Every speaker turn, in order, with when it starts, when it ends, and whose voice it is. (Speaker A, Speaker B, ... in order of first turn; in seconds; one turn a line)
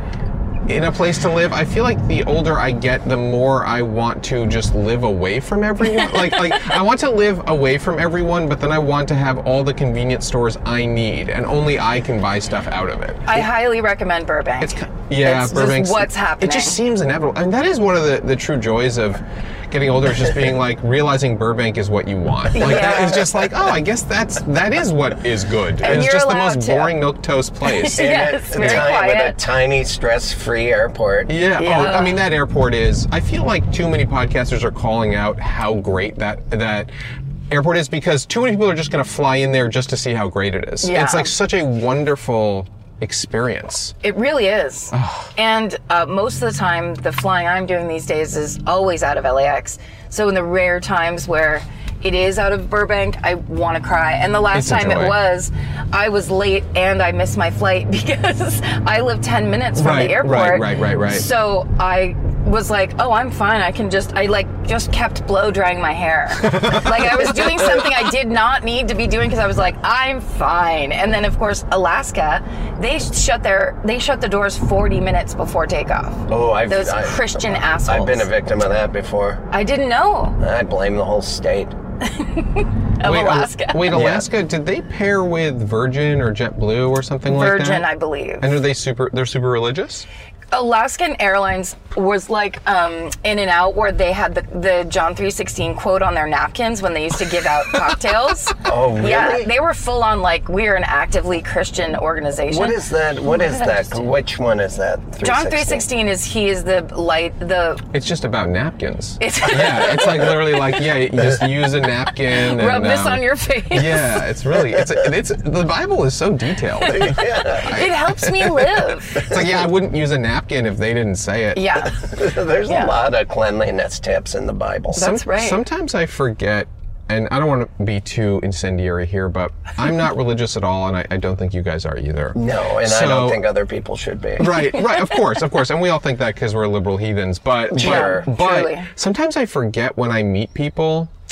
Speaker A: 0.7-13.5
Speaker B: 13.3-16.8
Speaker A: 14.6-28.9
Speaker B: 22.5-23.2
Speaker B: 25.8-27.0
Speaker B: 27.7-29.4
Speaker C: 28.0-31.3
Speaker A: 31.3-36.9
Speaker B: 31.6-32.2
Speaker A: 37.5-44.0
Speaker B: 40.8-41.3
Speaker B: 44.0-78.3
Speaker A: 44.9-45.3
Speaker A: 54.5-55.2
Speaker A: 59.8-61.3
Speaker A: 66.5-67.3
Speaker C: 76.3-79.5
Speaker B: 79.5-80.4
Speaker C: 80.4-81.8
Speaker B: 82.1-83.9
Speaker A: 83.0-87.9
Speaker C: 83.9-84.3
Speaker B: 87.3-88.5
Speaker A: 88.4-90.1
Speaker B: 90.5-102.8
Speaker C: 98.6-99.5
Speaker C: 102.5-105.8
Speaker B: 103.4-104.0
Speaker B: 105.2-107.8
Speaker A: 107.9-121.7
Speaker B: 109.2-110.5
Speaker B: 112.3-114.2
Speaker C: 116.9-117.8
Speaker B: 117.5-119.3
Speaker B: 121.5-122.1
Speaker C: 122.0-125.0
Speaker B: 122.7-122.9
Speaker B: 124.9-125.6
Speaker A: 124.9-133.4
Speaker C: 132.3-134.6
Speaker A: 134.4-141.1
Speaker C: 137.7-138.3
Speaker B: 137.8-138.9